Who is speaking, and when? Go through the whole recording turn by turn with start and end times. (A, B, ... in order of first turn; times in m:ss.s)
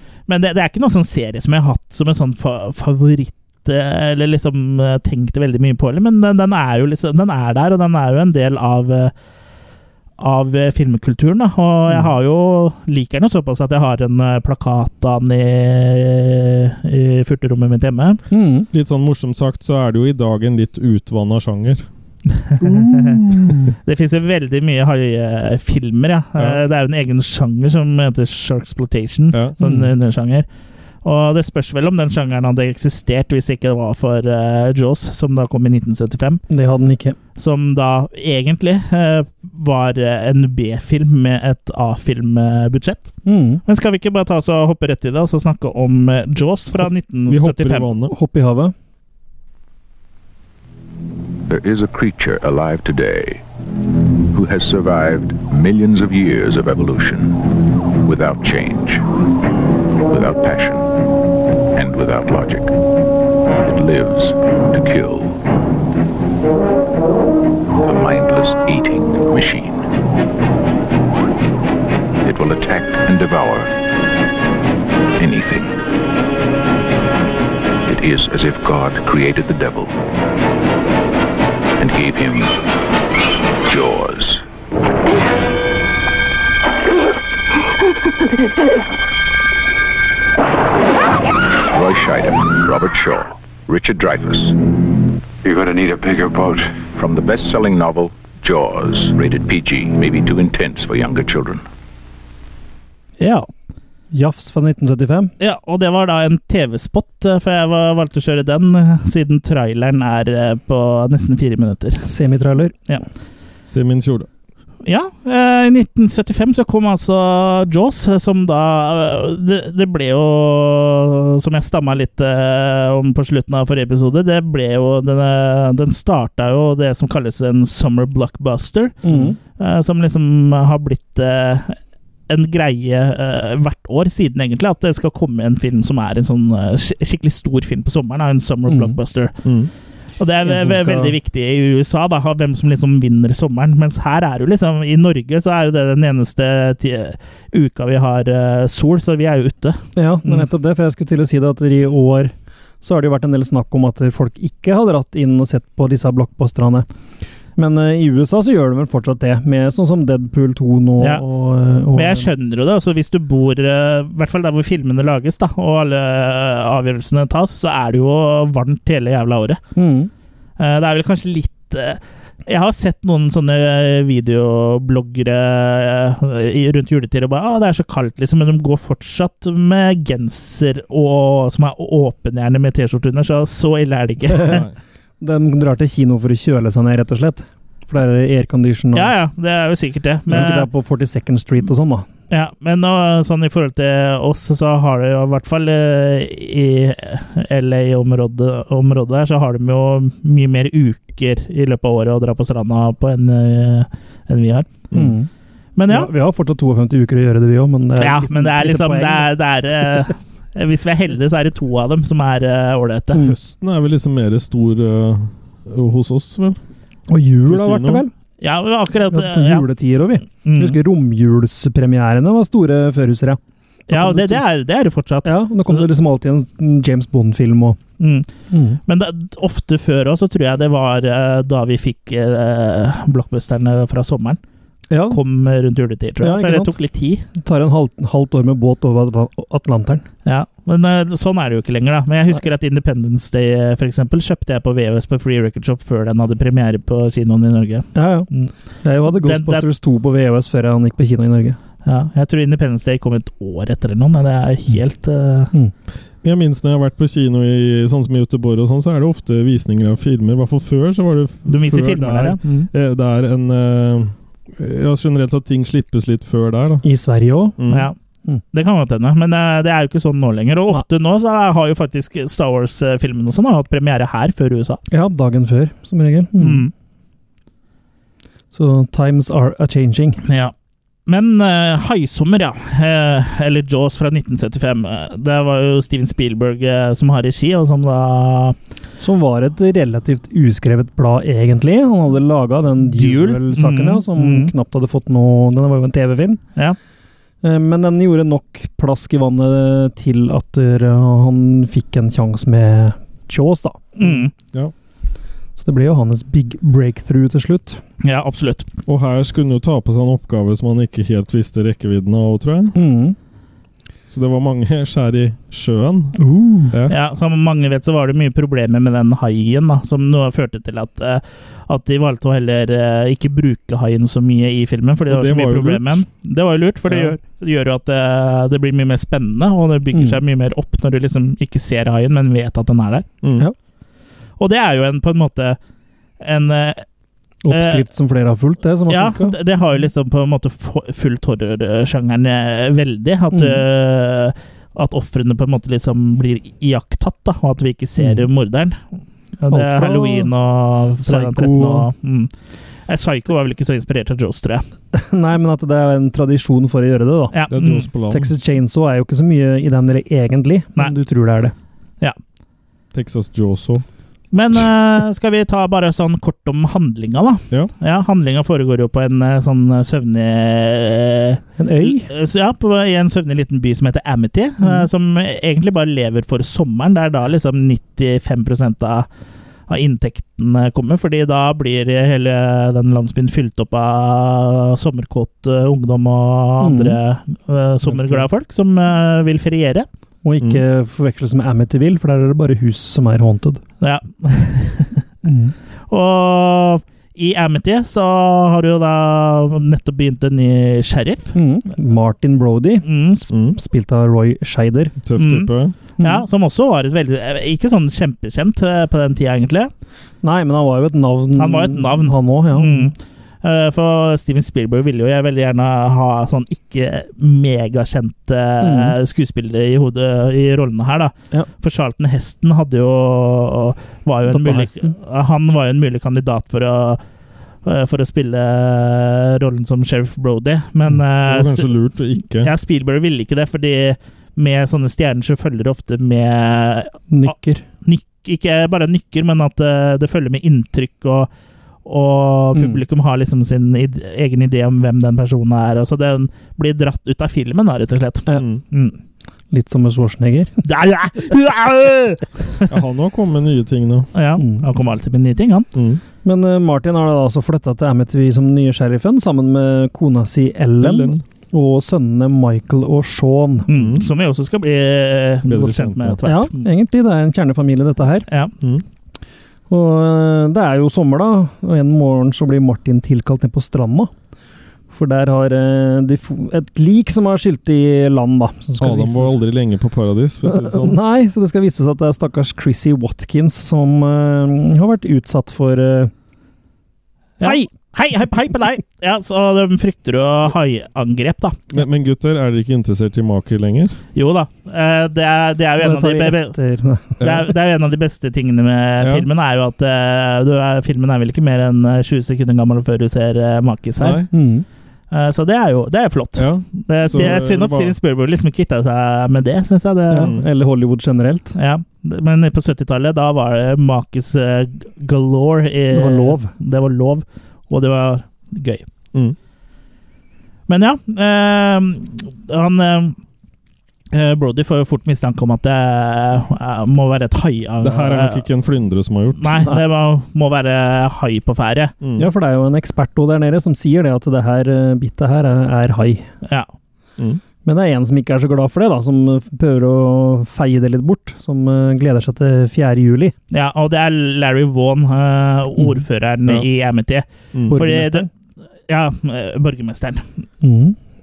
0:00.3-0:09.1 A
0:10.2-0:18.2 A
0:18.3-0:18.7 B
0:18.7-0:21.9 C
0:22.5-0:23.2 A
0:22.9-0:23.6 C
0:23.3-0:23.6 B
0:23.8-0:30.5 A
0:29.3-0:29.6 C
0:29.6-0:29.9 B
0:31.0-0:36.4 A
0:36.5-0:37.2 B
0:37.4-0:43.1 A
0:43.3-0:43.6 B
0:43.6-0:47.9 A
0:47.3-0:48.1 C
0:48.1-0:48.7 B
0:51.5-0:53.4 D
0:54.3-0:57.4 D
0:58.0-0:59.0 D
1:00.1-1:00.9 D
1:01.8-1:02.7 D
1:03.6-1:05.4 D
1:07.8-1:09.9 D
1:12.2-1:13.7 D
1:15.2-1:15.8 D
1:17.9-1:20.0 D
1:21.8-1:22.6 D
1:23.7-1:24.4 D
1:31.7-1:34.6 D
1:36.7-1:41.6 D
1:43.2-1:43.5 A
1:44.1-1:45.3 B
1:45.4-1:52.1 A
1:52.1-1:52.8 B
1:53.7-1:54.3 C
1:54.8-2:09.0 A
2:09.0-2:09.4 B
2:09.6-2:11.8 A
2:12.3-2:19.3 A
2:18.7-2:19.0 B
2:19.4-2:19.7 C
2:20.2-2:30.4 A
2:20.4-2:21.1 B
2:30.0-2:36.9 B
2:37.6-2:42.3 B
2:41.9-2:49.6 A
2:49.8-2:50.1 B
2:50.6-3:04.6 A
3:04.4-3:04.6 B
3:05.2-3:09.1 B
3:08.9-3:10.7 A
3:10.3-3:12.1 B
3:12.3-3:24.7 A
3:24.9-3:25.3 B
3:25.8-3:26.1 A
3:25.9-3:29.3 B
3:28.0-3:33.3 A
3:33.2-3:36.6 C
3:37.1-3:38.1 B
3:37.5-3:38.0 C
3:38.4-3:39.7 A
3:39.1-3:44.4 B
3:40.4-3:40.8 A
3:43.9-3:45.8 A
3:45.2-3:47.8 B
3:48.0-3:48.3 A
3:48.5-3:48.8 B
3:48.9-3:54.4 A
3:54.9-3:55.2 B
3:55.1-3:57.2 A
3:56.2-3:56.8 B
3:57.4-4:00.0 B
4:00.2-4:08.5 A
4:08.0-4:08.3 B
4:08.8-4:11.6 B
4:09.1-4:09.7 A
4:11.8-4:15.5 A
4:16.2-4:26.8 C
4:21.5-4:22.4 A
4:26.8-4:27.6 B
4:27.6-4:27.9 C
4:27.7-4:28.0 A
4:28.5-4:34.8 A
4:34.9-4:36.7 B
4:36.4-4:36.7 A
4:38.5-4:40.2 B
4:40.2-4:40.5 A
4:41.1-4:48.6 A
4:49.0-4:56.4 B
4:52.9-4:54.5 A
4:57.4-5:04.2 B
5:04.0-5:04.3 A
5:05.6-5:07.8 B
5:08.0-5:08.7 A
5:08.9-5:12.8 C
5:12.7-5:13.2 B
5:14.1-5:16.2 C
5:16.2-5:16.8 B
5:16.7-5:17.0 C
5:16.9-5:33.1 A
5:25.1-5:26.0 C
5:26.9-5:27.1 C
5:29.9-5:30.2 B
5:33.2-5:33.5 C
5:34.4-5:35.6 A
5:36.2-5:36.8 A
5:37.4-5:39.4 B
5:37.5-5:37.8 A
5:38.9-5:48.8 A
5:43.3-5:43.6 B
5:48.0-5:48.2 B
5:49.4-5:52.3 A
5:49.5-5:50.3 B
5:51.0-5:51.9 B
5:52.9-5:54.6 A
5:54.9-5:57.4 B
5:57.3-5:57.9 A
5:57.5-5:58.3 C
5:58.1-6:01.5 B
6:02.9-6:03.8 C
6:04.3-6:19.1 A
6:11.6-6:12.1 B
6:14.6-6:14.9 B
6:19.7-6:29.9 A
6:26.6-6:27.0 B
6:30.2-6:33.6 B
6:33.8-6:35.0 A
6:35.2-6:35.5 B
6:35.9-6:41.4 A
6:41.4-6:42.9 B
6:42.8-6:43.3 A
6:43.3-6:43.6 C
6:43.5-6:45.0 B
6:45.0-6:45.8 C
6:45.2-6:49.7 A
6:46.0-6:46.2 B
6:50.2-6:52.9 B
6:51.4-7:07.0 A
6:58.6-6:59.0 B
7:04.3-7:05.0 B
7:07.6-7:11.7 A
7:11.3-7:12.5 C
7:12.4-7:21.3 A
7:17.1-7:17.6 B
7:21.8-7:29.0 A
7:22.5-7:22.8 B
7:28.4-7:28.6 C
7:29.5-7:30.6 B
7:30.6-7:32.7 A
7:32.7-7:34.1 C
7:34.1-7:35.7 A
7:34.4-7:34.6 B
7:35.8-7:36.0 C
7:36.2-7:43.7 B
7:40.8-7:41.2 C
7:43.7-7:46.7 A
7:43.7-7:44.1 C
7:45.5-7:46.2 C
7:46.2-7:48.3 B
7:48.3-7:48.5 A
7:49.7-7:54.1 B
7:54.9-7:59.4 B
7:58.8-8:01.0 C
8:00.4-8:06.1 B
8:07.4-8:11.6 A
8:07.4-8:07.7 B
8:11.7-8:14.0 C
8:14.2-8:16.6 A
8:15.8-8:17.2 B
8:17.2-8:24.2 A
8:17.2-8:17.5 C
8:19.0-8:19.3 C
8:24.0-8:24.3 C
8:24.3-8:24.7 B
8:25.1-8:30.3 A
8:26.4-8:28.0 C
8:30.1-8:31.6 B
8:31.6-8:38.9 A
8:35.9-8:36.5 B
8:40.7-8:43.2 A
8:44.1-8:48.4 A
8:47.8-8:49.7 C
8:49.4-8:51.9 A
8:52.0-8:52.3 C
8:52.2-8:56.3 B
8:56.4-8:56.7 A
8:57.6-9:03.3 B
9:03.5-9:08.3 A
9:07.7-9:08.3 B
9:08.9-9:10.2 A
9:10.6-9:11.0 B